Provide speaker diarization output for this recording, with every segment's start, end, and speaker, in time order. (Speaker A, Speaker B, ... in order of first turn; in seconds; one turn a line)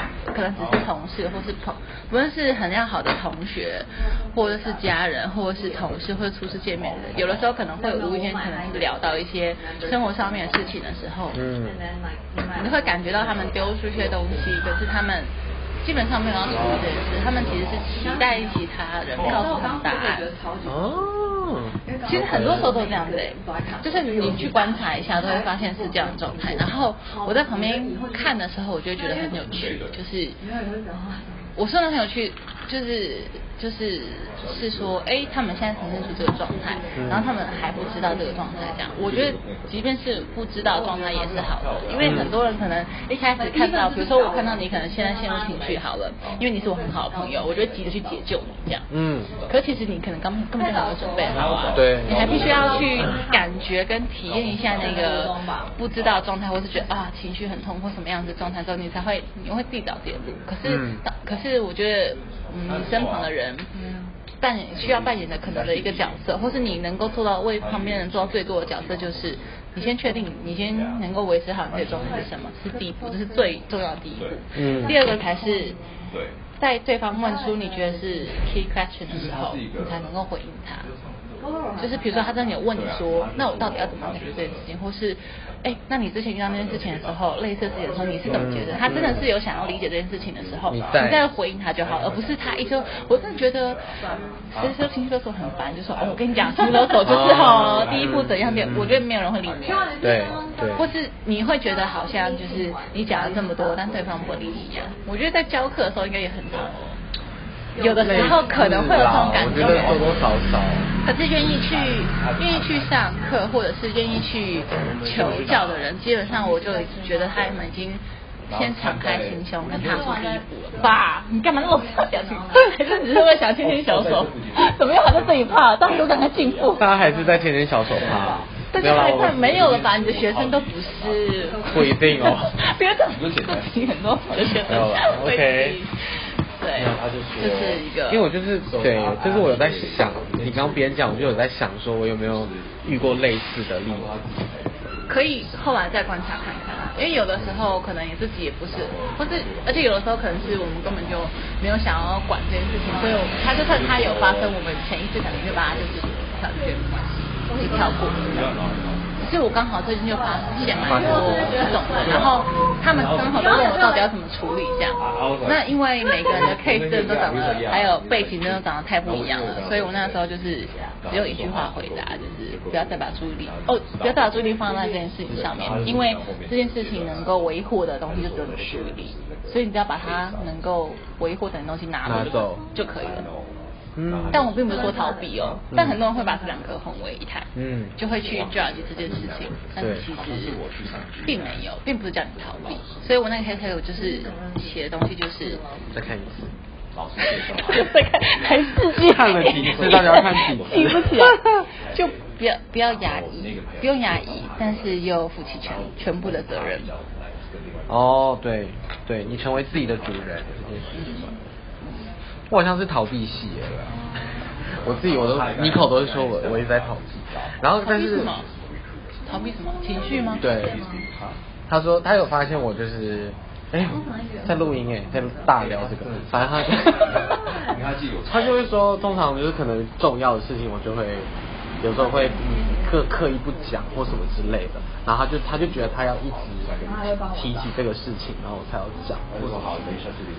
Speaker A: 0.3-11.4
Speaker B: 4.2-4.5
Speaker B: 7.1-10.8
Speaker C: 11.3-11.8
Speaker B: 11.4-13.7
Speaker A: 12.6-20.3
Speaker B: 18.0-18.6
Speaker B: 19.2-21.1
Speaker C: 20.6-22.8
Speaker B: 21.8-28.3
Speaker A: 22.0-30.4
Speaker B: 29.0-29.5
Speaker B: 30.4-31.4
Speaker A: 31.6-48.9
Speaker B: 36.9-38.9
Speaker C: 37.0-37.3
Speaker C: 42.0-42.3
Speaker B: 43.4-47.9
Speaker C: 48.9-49.3
Speaker A: 49.5-63.7
Speaker B: 50.6-51.4
Speaker C: 51.7-52.5
Speaker B: 52.1-53.4
Speaker B: 54.8-55.7
Speaker C: 60.6-61.0
Speaker B: 63.7-64.1
Speaker A: 64.4-75.8
Speaker B: 72.7-73.5
Speaker C: 74.5-74.9
Speaker B: 74.6-75.8
Speaker A: 76.6-80.9
Speaker B: 77.1-78.2
Speaker B: 81.4-82.4
Speaker A: 81.8-93.9
Speaker C: 88.3-89.2
Speaker C: 90.7-91.2
Speaker B: 94.0-94.5
Speaker A: 94.5-100.0
Speaker C: 97.0-99.0
Speaker B: 99.6-100.9
Speaker C: 100.0-100.8
Speaker A: 100.7-107.0
Speaker B: 101.6-104.6
Speaker B: 107.8-108.6
Speaker A: 107.8-110.1
Speaker C: 108.0-110.9
Speaker A: 111.0-126.9
Speaker B: 116.8-117.3
Speaker B: 119.8-120.5
Speaker B: 121.5-123.3
Speaker C: 126.8-129.6
Speaker B: 126.8-127.4
Speaker B: 128.0-128.9
Speaker A: 128.7-135.9
Speaker B: 131.5-132.4
Speaker C: 131.7-132.5
Speaker C: 134.7-135.8
Speaker A: 136.6-138.3
Speaker C: 136.8-144.2
Speaker A: 145.1-158.5
Speaker B: 157.5-158.1
Speaker A: 159.2-183.3
Speaker B: 160.1-162.4
Speaker C: 160.8-161.6
Speaker B: 163.4-164.0
Speaker C: 182.0-182.6
Speaker C: 183.9-184.4
Speaker A: 184.3-190.6
Speaker B: 184.6-185.4
Speaker C: 185.7-186.0
Speaker C: 187.6-187.9
Speaker C: 189.8-190.1
Speaker A: 191.2-195.6
Speaker B: 194.0-194.8
Speaker B: 195.4-195.9
Speaker C: 195.9-196.5
Speaker A: 197.2-206.9
Speaker C: 198.9-201.6
Speaker C: 207.9-211.2
Speaker A: 210.9-211.2
Speaker C: 212.5-213.7
Speaker C: 214.8-218.3
Speaker A: 217.8-218.5
Speaker A: 219.3-220.4
Speaker B: 220.3-221.0
Speaker C: 220.4-220.8
Speaker C: 221.7-227.2
Speaker B: 223.8-225.5
Speaker A: 226.8-227.3
Speaker B: 227.0-227.8
Speaker C: 228.2-231.3
Speaker C: 231.8-236.7
Speaker B: 231.9-233.0
Speaker B: 236.8-237.7
Speaker C: 237.3-239.6